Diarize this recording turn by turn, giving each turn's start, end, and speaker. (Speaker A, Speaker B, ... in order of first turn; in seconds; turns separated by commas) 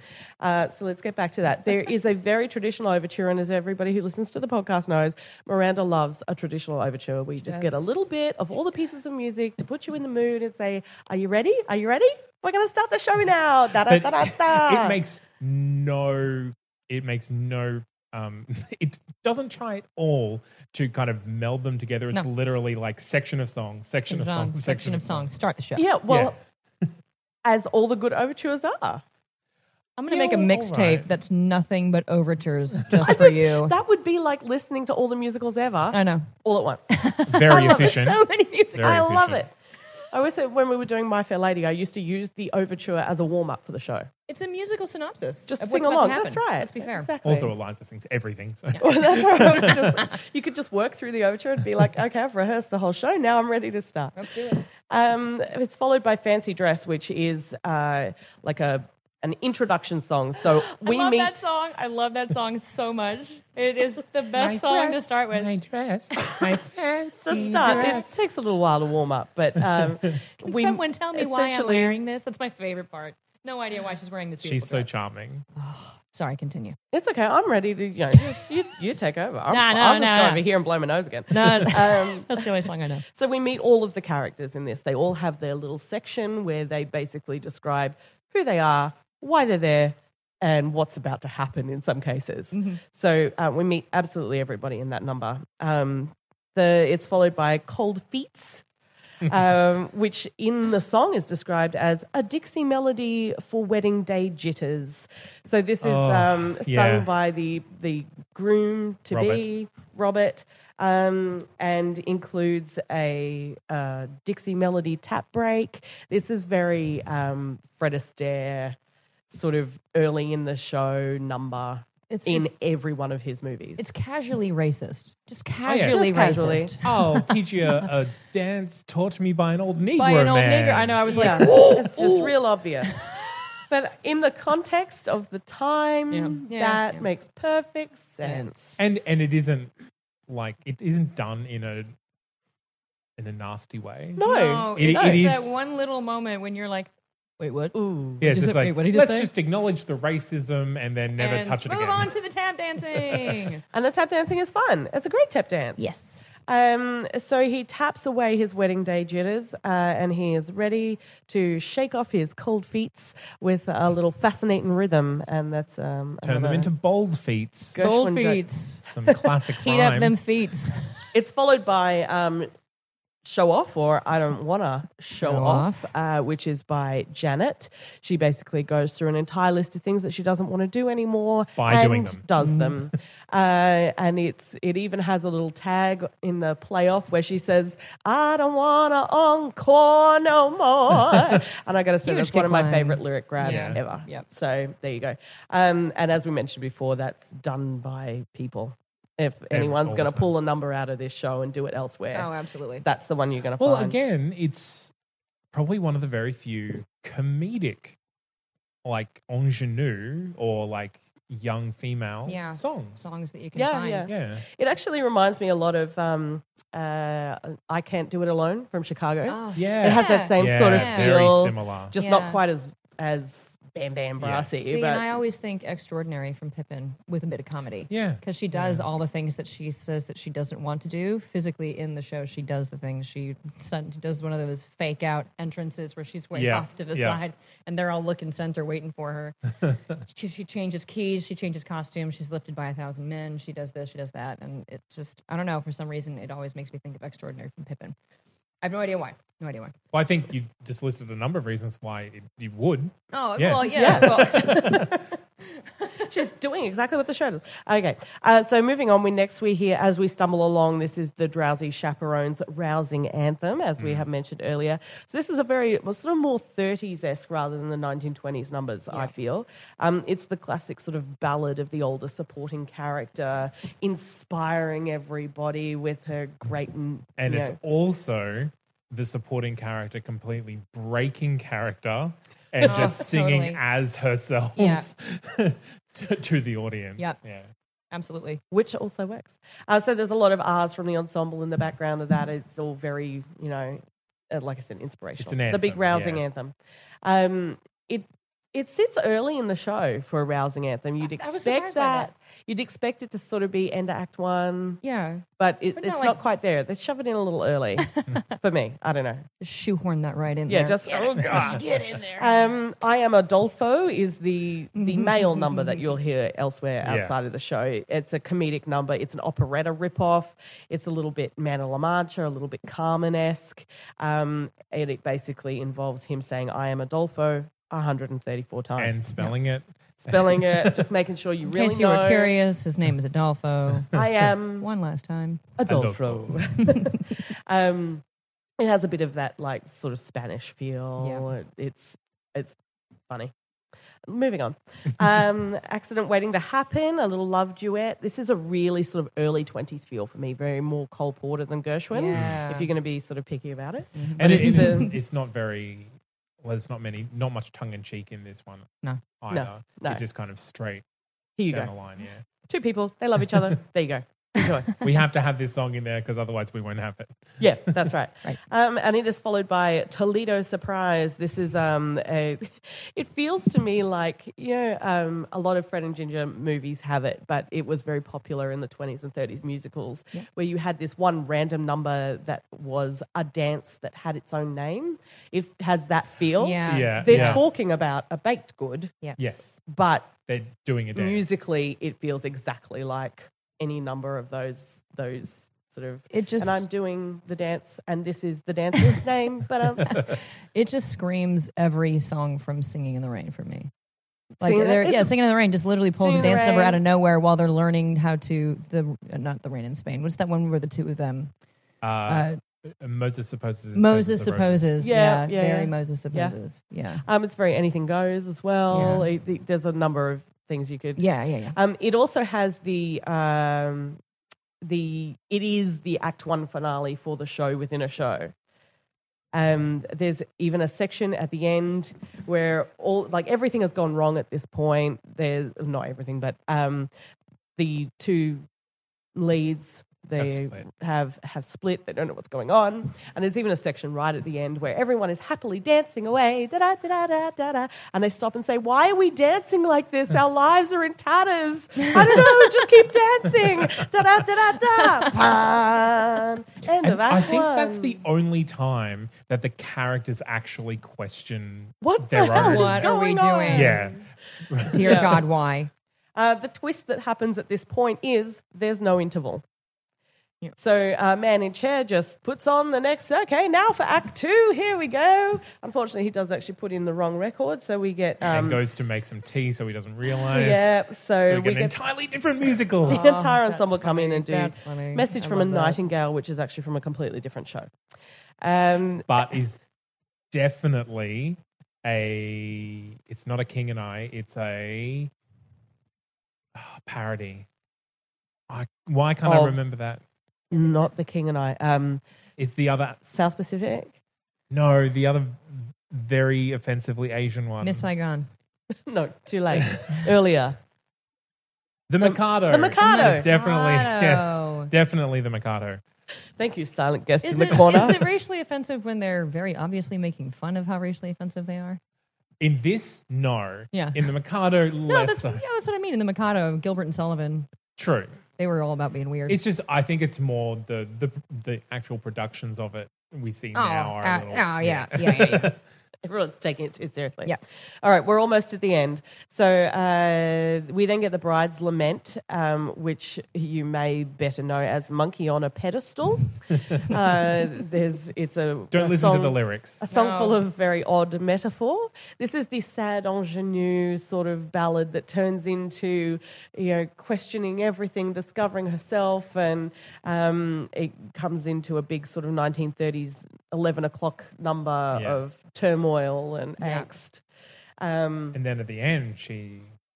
Speaker A: 0.4-15.0, Speaker B: 7.4-7.9, Speaker C: 13.8-25.3, Speaker B: 24.1-25.9, Speaker A: 25.8-26.4, Speaker C: 26.1-26.3, Speaker A: 27.4-29.0, Speaker B: 30.0-33.7, Speaker C: 30.1-31.1, Speaker A: 33.0-36.9, Speaker B: 35.9-36.3, Speaker B: 36.9-39.0, Speaker C: 37.3-38.2, Speaker A: 37.5-38.0, Speaker C: 38.7-39.4, Speaker A: 38.8-39.5, Speaker A: 40.1-44.1, Speaker B: 44.3-47.1, Speaker A: 45.5-47.5, Speaker C: 47.2-50.0, Speaker A: 48.8-54.2, Speaker B: 54.1-54.6, Speaker A: 54.8-61.3, Speaker B: 60.6-65.5, Speaker C: 64.3-68.0, Speaker B: 66.2-66.5, Speaker A: 67.2-72.0, Speaker B: 67.4-68.1, Speaker B: 70.4-74.9, Speaker C: 74.4-75.4, Speaker B: 75.5-76.8, Speaker A: 76.9-82.5, Speaker B: 79.5-80.4, Speaker B: 81.3-83.0, Speaker A: 83.1-98.6, Speaker B: 92.5-92.8, Speaker A: 99.2-118.8, Speaker C: 105.8-107.1, Speaker C: 109.1-109.5, Speaker A: 119.3-123.8, Speaker B: 122.1-122.5, Speaker B: 123.8-127.4, Speaker C: 125.7-126.0, Speaker A: 125.8-126.7, Speaker C: 126.8-131.7, Speaker B: 130.0-132.3, Speaker A: 131.1-132.9, Speaker B: 133.0-133.3, Speaker A: 133.7-138.6, Speaker B: 136.1-137.1, Speaker B: 138.2-138.8, Speaker C: 138.8-139.7, Speaker C: 140.3-141.9, Speaker C: 143.2-145.6, Speaker A: 144.2-145.3, Speaker B: 144.2-149.3, Speaker A: 147.7-148.2, Speaker C: 148.2-152.1, Speaker B: 151.2-153.6, Speaker C: 152.9-153.4, Speaker A: 153.7-155.8, Speaker B: 155.8-156.2, Speaker A: 156.4-166.7, Speaker C: 166.2-167.8, Speaker A: 167.7-168.4, Speaker B: 167.8-168.8, Speaker C: 168.8-170.2, Speaker B: 169.6-171.1, Speaker A: 171.1-172.5, Speaker A: 173.2-202.3, Speaker B: 175.2-175.9, Speaker C: 181.6-182.2, Speaker B: 182.4-182.7, Speaker B: 192.0-194.2, Speaker C: 193.4-193.8, Speaker C: 199.5-200.3, Speaker B: 202.1-202.8, Speaker A: 202.8-204.0, Speaker C: 203.6-204.9, Speaker C: 205.5-208.0, Speaker C: 208.8-213.0, Speaker B: 212.2-214.1, Speaker A: 213.5-225.1, Speaker C: 214.1-214.4, Speaker B: 219.3-221.2, Speaker C: 219.6-221.9, Speaker B: 221.9-222.4, Speaker C: 224.2-224.5, Speaker B: 224.6-239.3, Speaker C: 227.9-228.8, Speaker C: 236.3-237.2, Speaker B: 240.1-247.9, Speaker B: 248.6-249.7, Speaker C: 249.9-255.0, Speaker B: 253.1-255.0, Speaker A: 253.7-254.9, Speaker A: 255.9-277.6, Speaker C: 263.8-264.1, Speaker C: 277.2-287.5, Speaker B: 282.6-283.6, Speaker B: 284.6-284.8, Speaker B: 287.9-288.4, Speaker A: 288.5-304.8, Speaker C: 295.2-296.2, Speaker B: 301.0-302.1, Speaker B: 304.8-305.2, Speaker A: 305.4-309.3, Speaker B: 305.8-306.2, Speaker B: 307.8-308.2, Speaker B: 309.4-312.4, Speaker A: 310.5-329.0, Speaker C: 311.2-311.9, Speaker B: 314.8-315.9, Speaker C: 316.8-317.1, Speaker C: 328.8-330.9, Speaker A: 330.0-332.4, Speaker B: 331.4-333.9, Speaker A: 333.9-334.7, Speaker B: 334.6-335.4, Speaker A: 335.6-338.0, Speaker C: 335.6-336.4, Speaker B: 336.6-336.9, Speaker A: 338.6-342.5, Speaker B: 341.0-341.3, Speaker A: 344.1-354.9, Speaker B: 351.9-352.7, Speaker B: 353.9-354.9, Speaker C: 354.2-360.8, Speaker A: 359.3-360.0, Speaker A: 361.4-361.7, Speaker C: 361.5-362.2, Speaker A: 362.4-364.8, Speaker C: 364.8-367.9, Speaker A: 367.4-389.0, Speaker B: 386.4-387.4, Speaker C: 386.7-387.4, Speaker C: 389.2-389.6, Speaker A: 389.7-390.1, Speaker C: 390.3-391.3, Speaker A: 390.9-400.0, Speaker B: 396.1-396.6, Speaker B: 400.5-403.7, Speaker A: 404.4-405.1, Speaker B: 404.4-411.3, Speaker A: 405.9-406.8, Speaker C: 411.8-414.7, Speaker B: 412.1-412.4, Speaker B: 413.7-417.0, Speaker A: 414.8-416.3, Speaker A: 417.0-424.0, Speaker B: 418.7-419.1, Speaker B: 421.0-421.6, Speaker A: 424.6-428.3, Speaker A: 429.3-436.9, Speaker A: 437.6-438.4, Speaker A: 439.1-458.0, Speaker C: 440.2-440.6, Speaker C: 456.8-462.9, Speaker A: 461.8-464.0, Speaker B: 462.4-463.8, Speaker C: 463.5-465.2, Speaker B: 464.7-465.7, Speaker A: 464.8-465.2, Speaker A: 466.1-469.4, Speaker A: 470.6-478.6, Speaker C: 478.2-480.7, Speaker A: 480.2-481.8, Speaker C: 481.2-483.0, Speaker A: 482.9-487.7, Speaker B: 482.9-485.8, Speaker A: 488.4-489.2, Speaker C: 489.1-489.6, Speaker C: 490.3-495.1, Speaker C: 496.5-497.4, Speaker C: 498.5-500.0, Speaker A: 499.2-499.6, Speaker A: 500.5-502.0, Speaker C: 502.4-503.0, Speaker A: 503.1-503.9, Speaker C: 504.5-507.9, Speaker B: 507.6-508.3, Speaker A: 508.9-510.6, Speaker C: 509.5-509.9, Speaker C: 511.9-515.8, Speaker A: 512.0-513.3, Speaker B: 512.8-514.7, Speaker A: 516.4-518.0, Speaker B: 517.2-521.8, Speaker C: 517.5-517.9, Speaker C: 522.4-525.4, Speaker B: 523.7-524.1, Speaker B: 524.9-527.5, Speaker C: 527.8-528.1, Speaker B: 528.4-529.4, Speaker C: 529.3-535.6, Speaker B: 533.5-535.5, Speaker A: 536.0-567.2, Speaker C: 548.7-549.8, Speaker B: 549.9-550.4, Speaker C: 564.9-565.2, Speaker B: 566.6-566.9, Speaker A: 567.8-568.4, Speaker C: 568.3-569.7